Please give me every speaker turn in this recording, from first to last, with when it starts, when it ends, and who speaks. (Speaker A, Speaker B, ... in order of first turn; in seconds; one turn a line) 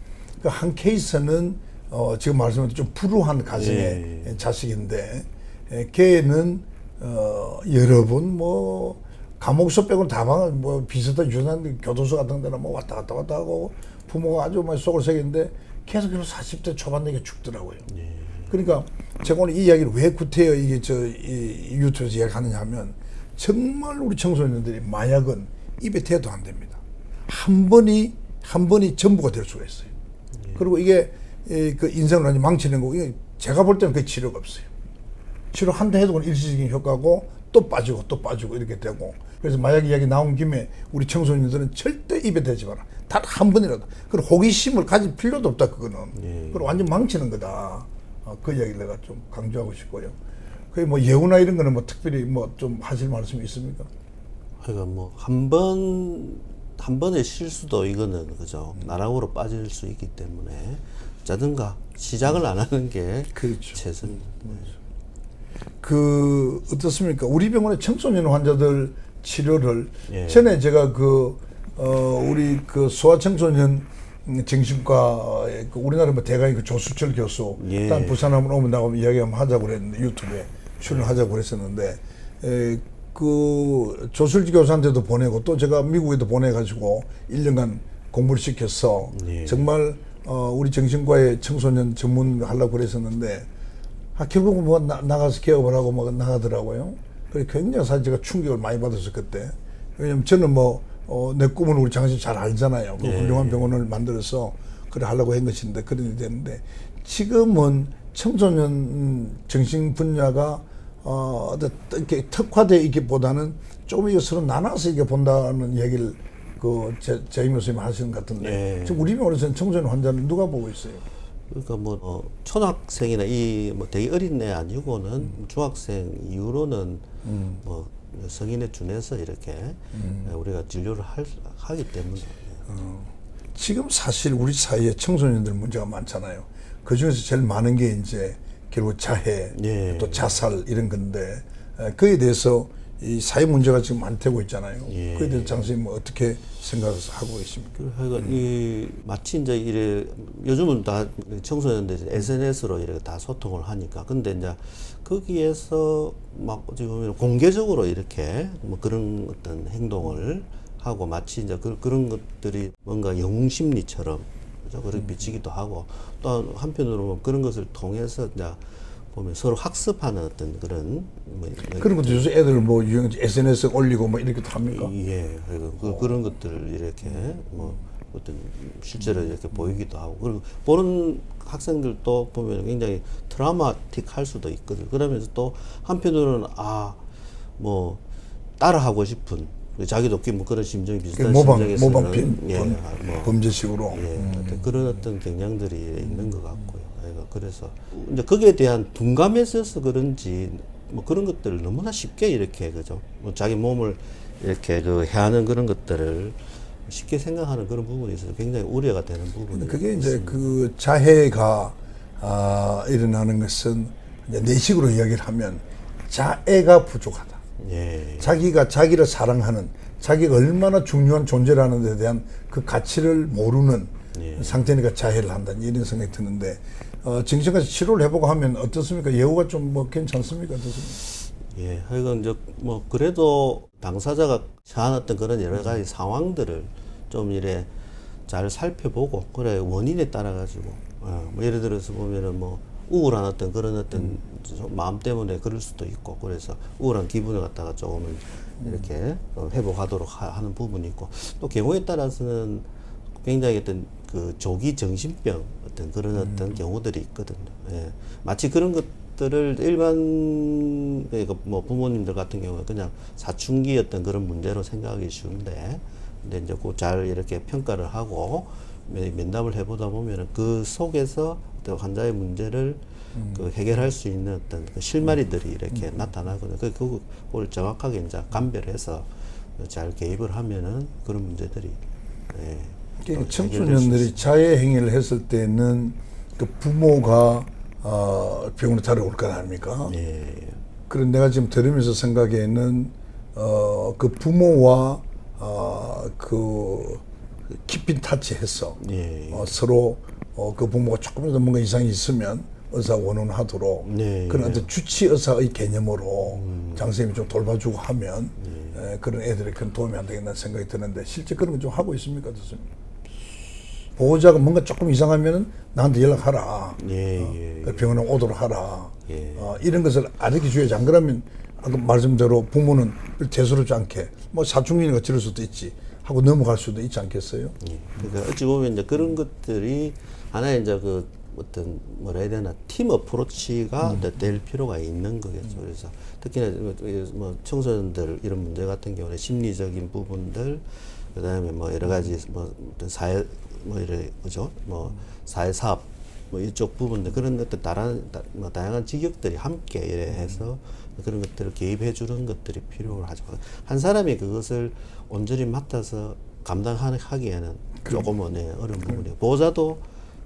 Speaker A: 0.4-17.9
Speaker B: 3.5-4.4
Speaker B: 17.9-18.5
Speaker A: 18.5-29.9
Speaker A: 30.5-34.7
Speaker A: 35.5-50.1
Speaker B: 46.1-46.9
Speaker A: 50.7-53.9
Speaker B: 54.6-64.7
Speaker A: 63.3-63.8
Speaker A: 65.8-93.5
Speaker B: 70.1-70.5
Speaker B: 77.6-78.4
Speaker B: 80.8-81.2
Speaker B: 89.1-89.7
Speaker A: 94.1-121.0
Speaker B: 103.0-103.7
Speaker B: 118.4-119.1
Speaker B: 121.5-127.0
Speaker A: 127.2-127.6
Speaker B: 127.6-132.6
Speaker A: 129.9-130.3
Speaker A: 132.7-148.4
Speaker B: 139.5-140.4
Speaker B: 144.9-145.7
Speaker B: 147.8-172.3
Speaker A: 164.9-165.2
Speaker A: 171.7-174.9
Speaker B: 174.7-187.0
Speaker A: 175.8-176.3
Speaker A: 177.2-177.7
Speaker B: 187.6-188.0
Speaker B: 188.6-210.5
Speaker A: 191.1-194.8
Speaker A: 196.0-196.5
Speaker A: 209.5-217.4
Speaker B: 217.6-218.4
Speaker A: 218.2-231.0
Speaker B: 224.1-224.6
Speaker B: 231.5-237.7
Speaker B: 238.3-252.7
Speaker A: 248.6-248.8
Speaker B: 253.2-281.8
Speaker A: 273.1-273.5
Speaker B: 282.3-284.2
Speaker A: 283.0-289.9
Speaker B: 289.8-290.6
Speaker A: 290.9-298.8
Speaker B: 298.8-299.6
Speaker A: 299.3-312.7
Speaker B: 303.8-304.7
Speaker B: 306.3-306.9
Speaker B: 308.4-308.8
Speaker A: 313.9-327.6
Speaker B: 316.8-318.0
Speaker B: 319.1-319.6
Speaker B: 327.6-359.8
Speaker A: 350.1-350.4
Speaker A: 357.8-358.1